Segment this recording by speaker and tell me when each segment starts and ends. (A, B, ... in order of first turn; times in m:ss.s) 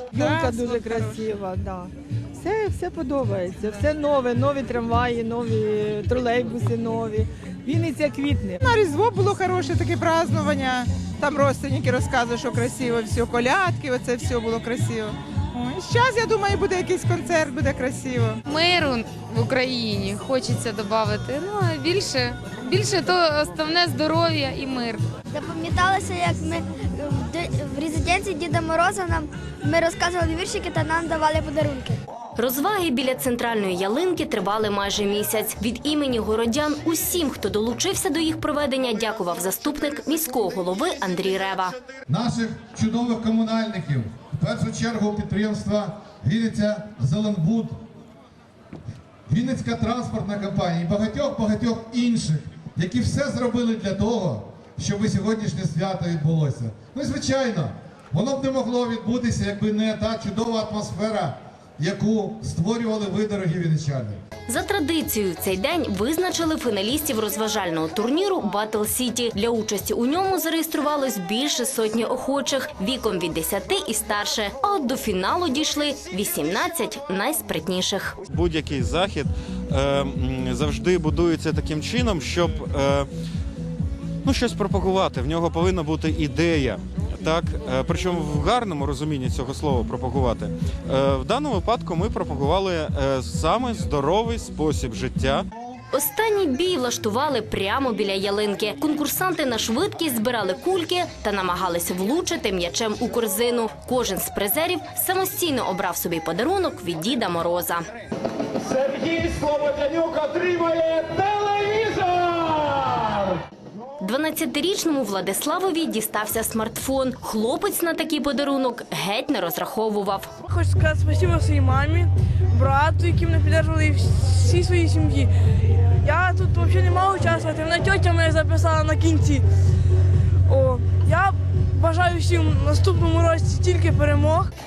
0:00.1-0:01.3 A
0:00.1-0:08.6 B
0:08.6-0:18.4 A
0:18.5-0:25.0 C
0:25.3-0:32.0 D
0:32.4-0:41.8 E
0:42.1-0:47.8 F
0:49.3-1:04.2 F
1:04.5-1:18.2 E
1:18.3-1:23.1 G
1:24.2-1:35.4 G
1:35.9-1:47.8 E
1:48.9-1:50.9 H
1:54.0-2:00.3 E
2:00.4-2:05.3 I
2:06.0-2:09.4 I
2:10.5-2:14.5 I